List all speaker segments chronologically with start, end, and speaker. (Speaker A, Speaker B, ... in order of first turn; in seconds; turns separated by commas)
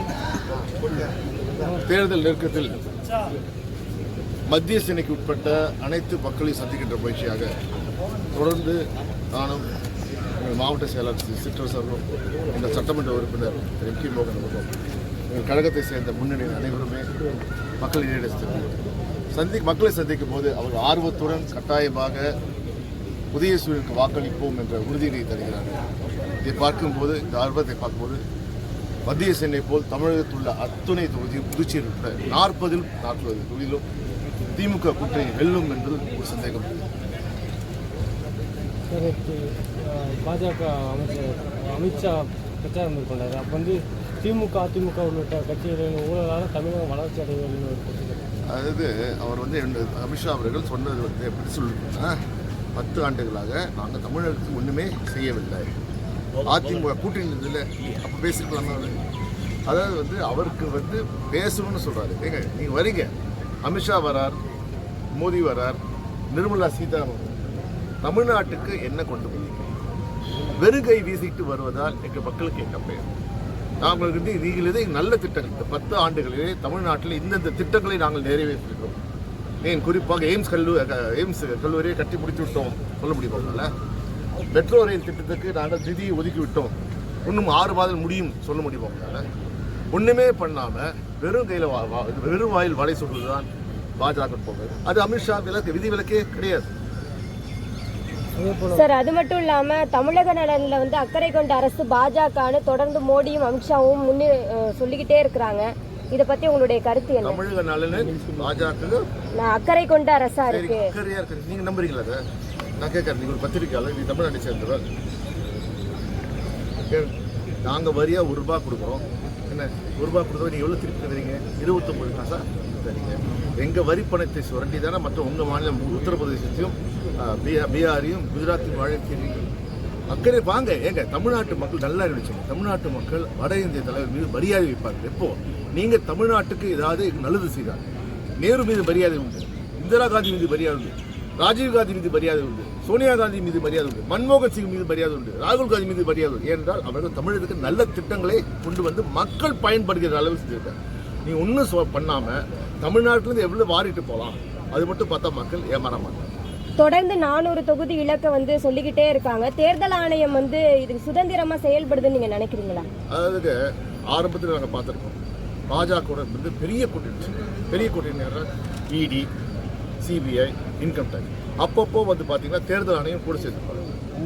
Speaker A: 1.7-2.8, Speaker A: 4.5-7.5, Speaker A: 8.3-8.8, Speaker A: 9.3-9.7, Speaker A: 10.4-14.7, Speaker A: 15.3-17.1, Speaker A: 17.8-18.8, Speaker A: 19.3-22.3, Speaker A: 23.3-25.8, Speaker A: 26.4-28.2, Speaker A: 29.1-33.8, Speaker A: 34.5-36.8, Speaker B: 38.9-48.3, Speaker A: 48.5-52.2, Speaker A: 52.8-55.7, Speaker A: 56.4-59.0, Speaker A: 59.7-63.1, Speaker A: 63.6-64.4, Speaker A: 65.2-65.8, Speaker A: 66.3-67.4, Speaker A: 68.0-69.7, Speaker A: 70.5-73.1, Speaker A: 73.8-79.0, Speaker A: 79.6-83.7, Speaker A: 84.5-89.2, Speaker A: 89.9-96.7, Speaker B: 98.4-98.8, Speaker C: 98.7-107.4, Speaker A: 107.2-109.0, Speaker C: 109.4-110.9, Speaker A: 110.5-112.2, Speaker A: 112.8-114.8, Speaker A: 117.7-129.5, Speaker A: 130.1-137.9, Speaker A: 138.4-156.3, Speaker C: 156.8-162.9, Speaker A: 163.1-163.6, Speaker A: 164.1-165.2, Speaker A: 165.7-169.3, Speaker A: 170.0-173.8